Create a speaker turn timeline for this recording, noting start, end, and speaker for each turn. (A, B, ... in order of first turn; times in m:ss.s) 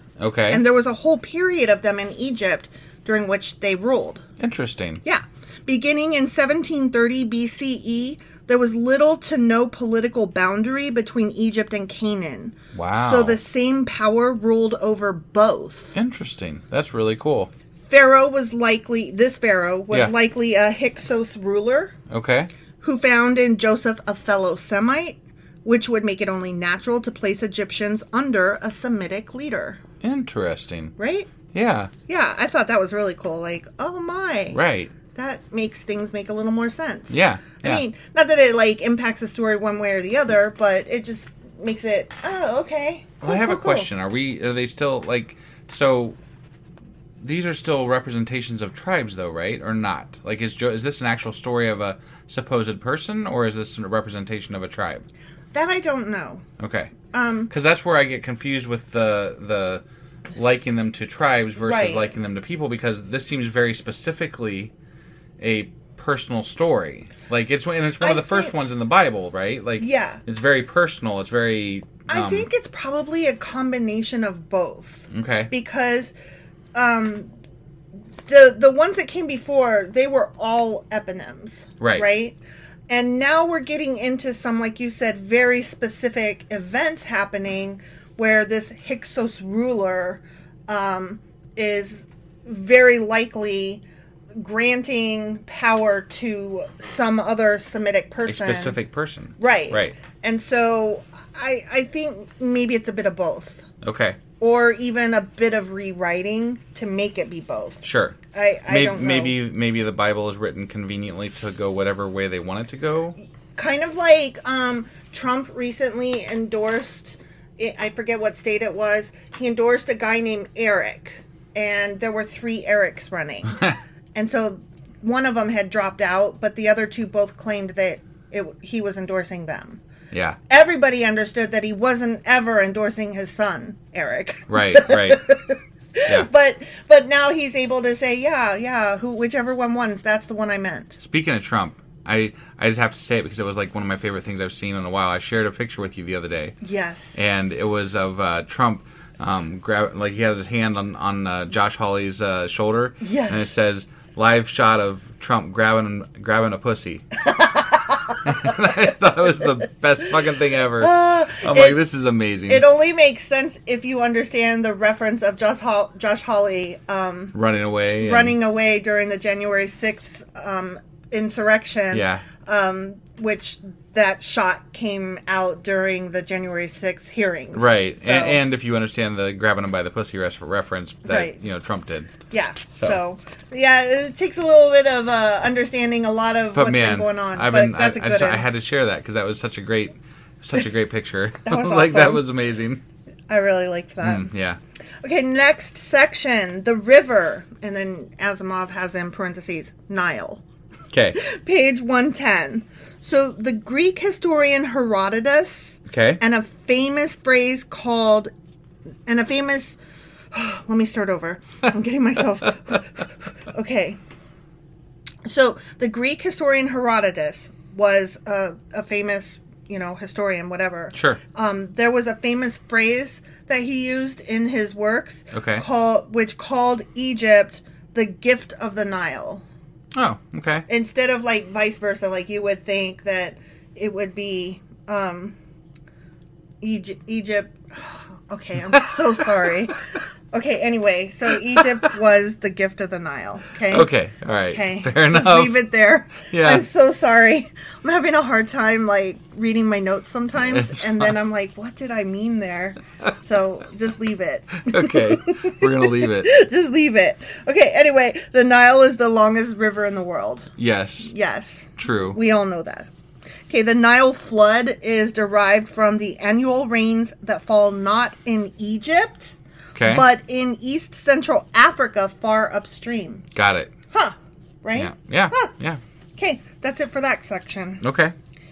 0:00.2-0:00.6 A
0:00.5-0:04.2 B
0:04.4-0:05.0 A
0:05.0-0:15.9 B
0:12.7-0:13.4 A
0:16.0-0:17.5 A
0:17.9-0:22.0 B
0:22.1-0:22.5 A
0:22.8-0:29.8 B
0:30.0-0:30.9 A
0:31.0-0:31.3 B
0:31.5-0:31.9 A
0:32.1-0:34.6 B
0:34.5-0:34.9 A
0:35.1-0:43.9 B
0:37.1-0:37.8 A
0:43.2-0:46.2 A
0:47.2-0:55.0 A
0:55.5-0:56.4 B
0:56.6-0:56.9 A
0:57.1-0:57.5 B
0:57.5-0:59.8 A
1:00.3-1:04.7 A
1:01.6-1:02.1 B
1:05.4-1:12.5 A
1:08.0-1:08.5 B
1:09.8-1:10.2 B
1:12.1-1:16.1 B
1:15.1-1:15.5 A
1:16.7-1:17.3 B
1:18.3-1:22.4 B
1:21.8-1:22.1 A
1:22.9-1:33.8 B
1:34.4-1:38.8 B
1:38.3-1:40.0 A
1:39.4-1:43.7 B
1:43.8-1:44.2 A
1:44.4-1:49.4 B
1:47.8-1:53.2 A
1:53.6-2:03.6 B
2:04.2-2:09.8 B
2:10.1-2:10.4 A
2:10.5-2:21.0 B
2:14.5-2:15.3 A
2:21.0-2:26.6 A
2:26.6-2:27.2 B
2:27.2-2:37.0 A
2:33.0-2:33.5 B
2:37.3-2:38.2 B
2:38.2-2:42.7 A
2:40.8-2:41.8 B
2:42.5-2:47.4 B
2:47.3-2:48.4 A
2:48.0-2:58.4 B
2:51.9-2:52.2 A
2:57.5-3:02.1 A
3:01.1-3:01.4 B
3:02.3-3:08.5 B
3:06.5-3:12.8 A
3:11.4-3:12.2 B
3:13.3-3:14.3 B
3:14.0-3:14.6 A
3:15.0-3:20.4 B
3:20.9-3:21.2 A
3:21.2-3:28.3 B
3:25.9-3:26.2 A
3:29.1-3:29.8 B
3:30.3-3:32.9 B
3:33.5-3:34.0 B
3:35.3-3:49.4 B
3:40.9-3:41.2 A
3:45.3-3:45.6 A
3:50.0-3:50.7 A
3:50.7-3:55.4 B
3:56.6-3:59.8 B
4:00.3-4:03.9 B
4:03.7-4:05.6 A
4:04.5-4:20.5 B
4:06.3-4:06.7 A
4:10.5-4:11.1 A
4:14.7-4:16.3 A
4:20.6-4:21.1 A
4:21.0-4:22.9 B
4:21.8-4:22.2 A
4:23.5-4:33.3 B
4:29.8-4:30.1 A
4:33.4-4:33.7 A
4:33.9-4:35.5 B
4:34.8-4:35.8 A
4:36.2-4:37.8 B
4:37.8-4:38.1 A